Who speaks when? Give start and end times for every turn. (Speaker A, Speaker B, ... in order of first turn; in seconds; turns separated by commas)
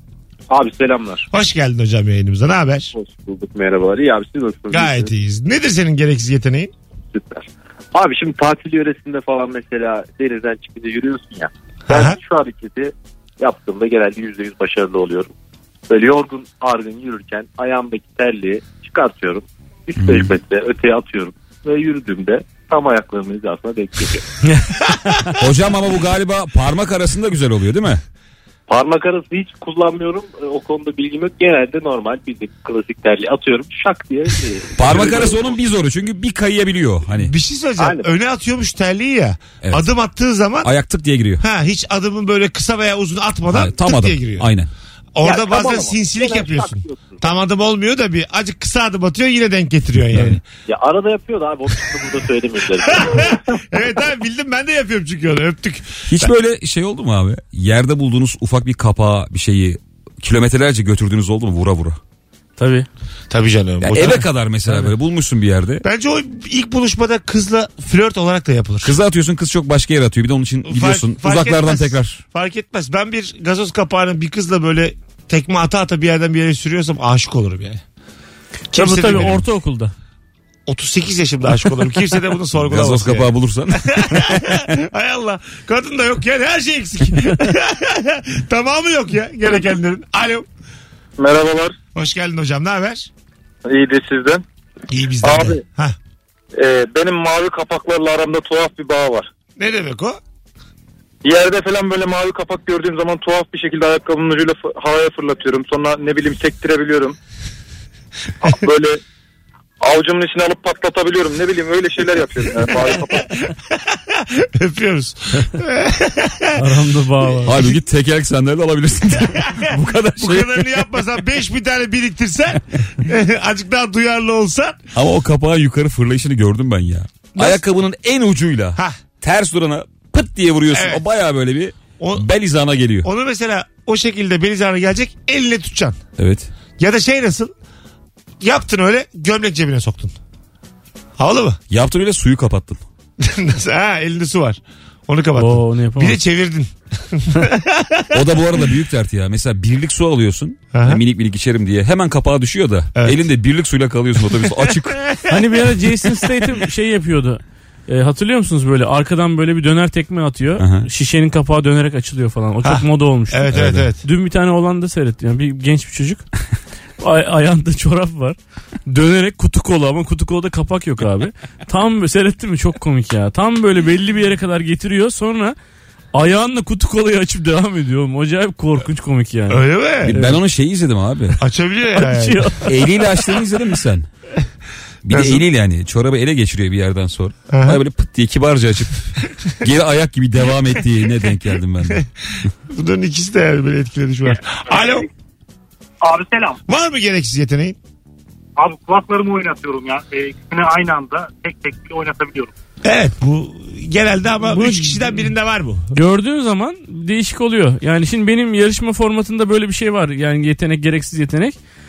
Speaker A: 0.5-1.3, Speaker B: 1.3-2.9, Speaker A: 3.0-5.1, Speaker B: 4.7-6.7, Speaker A: 7.1-15.3, Speaker B: 11.9-12.2, Speaker A: 15.9-24.2, Speaker C: 20.0-20.3, Speaker D: 24.4-25.3, Speaker C: 25.4-28.0, Speaker A: 28.7-35.5, Speaker C: 34.8-37.3, Speaker B: 37.1-40.7, Speaker A: 37.8-38.1, Speaker C: 40.6-41.4, Speaker B: 41.4-44.5, Speaker C: 43.5-44.7, Speaker B: 45.1-50.4, Speaker A: 45.2-47.2, Speaker A: 50.7-53.6, Speaker B: 52.9-56.3, Speaker C: 56.1-62.0, Speaker D: 62.6-62.9, Speaker B: 63.3-64.3, Speaker C: 63.8-65.8, Speaker B: 65.8-69.0, Speaker C: 68.8-72.2, Speaker B: 70.7-77.8, Speaker B: 78.7-79.4, Speaker D: 78.8-79.9, Speaker B: 80.7-90.5, Speaker C: 82.6-84.7, Speaker E: 91.2-91.8, Speaker B: 92.0-93.1, Speaker E: 93.7-94.4, Speaker B: 94.9-96.0, Speaker E: 95.2-95.6, Speaker E: 96.5-99.3, Speaker B: 99.6-100.2, Speaker E: 101.2-107.2, Speaker E: 108.4-109.0, Speaker E: 109.8-113.2, Speaker B: 113.7-116.6, Speaker D: 116.6-117.5, Speaker B: 117.2-117.7, Speaker C: 117.5-120.7, Speaker B: 119.3-124.8, Speaker C: 125.0-133.1, Speaker B: 127.3-127.6, Speaker B: 130.7-131.0, Speaker B: 132.0-132.3, Speaker B: 133.0-136.0, Speaker C: 136.2-136.5, Speaker B: 136.8-137.5, Speaker B: 138.4-140.2, Speaker B: 141.2-141.6, Speaker C: 141.7-142.8, Speaker B: 143.2-148.3, Speaker D: 145.4-146.2, Speaker C: 148.1-155.0, Speaker B: 150.7-151.0, Speaker B: 152.9-153.2, Speaker B: 154.4-155.4, Speaker D: 155.3-166.2, Speaker C: 160.6-160.9, Speaker B: 162.6-164.0, Speaker C: 163.5-163.8, Speaker D: 167.0-175.6, Speaker D: 176.1-180.4, Speaker B: 179.5-180.2, Speaker C: 180.0-181.4, Speaker B: 181.4-182.6, Speaker D: 182.0-182.7, Speaker C: 182.7-184.1, Speaker C: 185.0-192.0, Speaker B: 185.1-185.4, Speaker B: 187.5-187.8, Speaker B: 192.7-195.1, Speaker F: 196.0-196.6, Speaker B: 196.7-197.8, Speaker F: 198.6-202.5, Speaker B: 202.8-205.9, Speaker D: 204.4-205.2, Speaker D: 205.9-211.6